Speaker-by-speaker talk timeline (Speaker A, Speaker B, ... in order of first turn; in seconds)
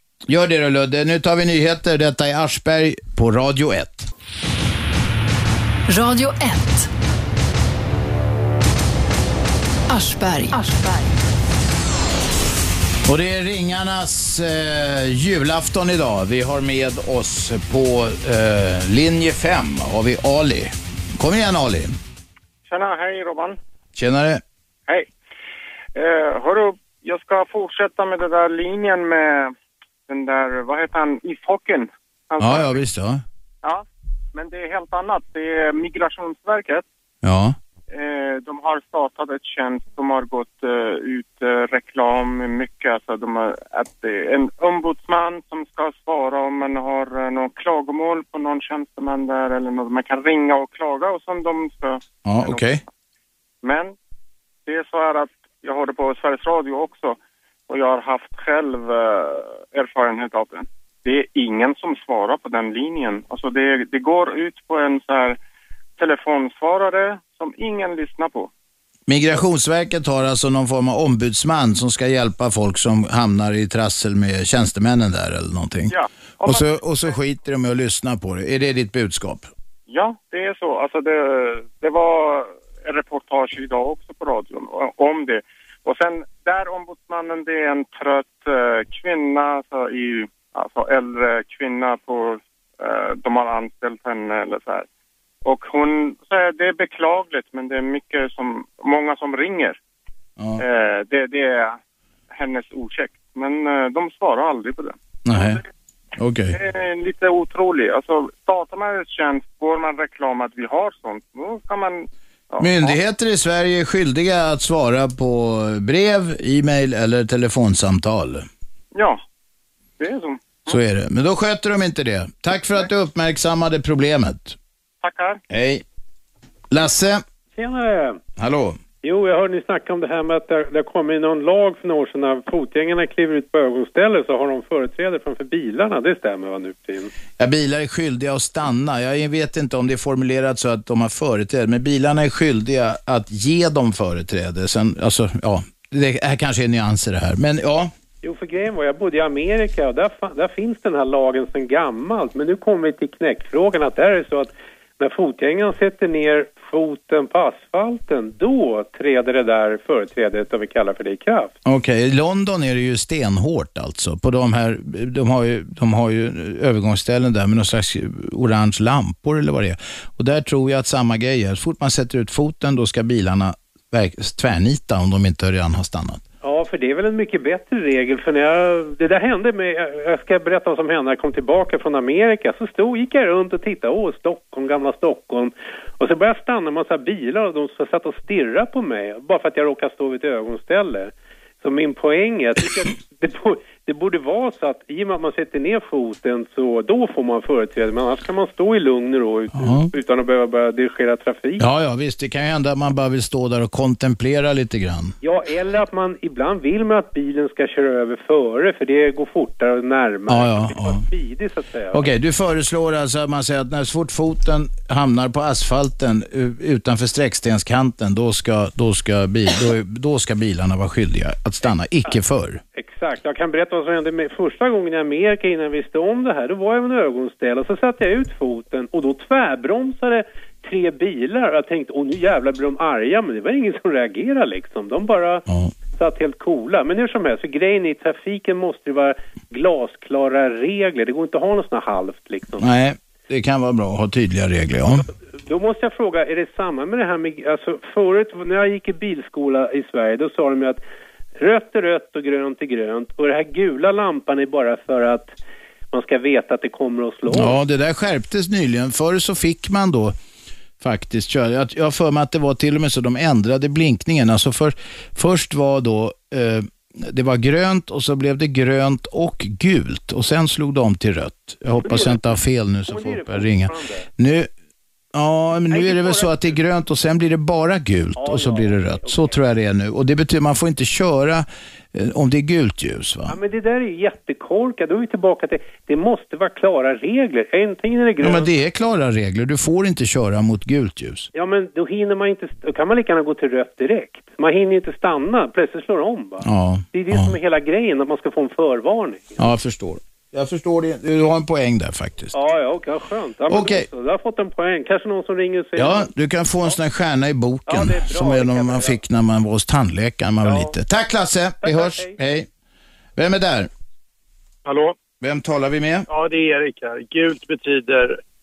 Speaker A: 0.3-4.1, 13.0-21.9, 23.9-24.4, 32.4-33.2, 37.2-37.5, 52.2-52.8, 69.1-79.5, 105.2-105.6, 106.2-106.5, 112.6-118.5, 120.7-124.5, 125.5-125.8, 126.7-127.2, 128.4-128.8, 137.4-147.9, 161.6-176.2, 201.6-205.1, 210.3-211.0, 211.9-222.6, 242.6-245.0, 257.3-260.1, 260.8-274.5, 275.1-283.3, 288.2-291.3, 296.4-297.3, 299.4-302.3, 303.5-303.9, 305.8-312.5, 313.1-313.7, 315.2-316.1
Speaker B: 5.9-6.9, 9.9-11.2
Speaker C: 22.6-23.6, 25.9-29.5, 30.1-32.8, 33.6-36.9, 37.9-52.7, 53.6-53.9, 54.6-57.2, 57.7-65.4, 66.0-68.5, 75.9-76.7, 79.9-94.8, 95.4-99.8, 100.6-101.8, 102.3-105.6, 106.5-113.0, 118.9-119.2, 120.0-120.8, 125.0-125.4
Speaker D: 127.5-128.2, 129.0-137.1, 148.2-161.5, 176.4-201.6, 205.2-212.0, 222.7-242.6, 245.4-250.8, 251.4-255.3, 255.9-257.6, 271.8-274.1, 275.7-276.5, 278.2-279.4, 283.3-288.5, 291.3-299.5, 302.3-306.1, 307.7-309.0, 310.4-310.7, 311.6-312.1
Speaker E: 316.1-318.1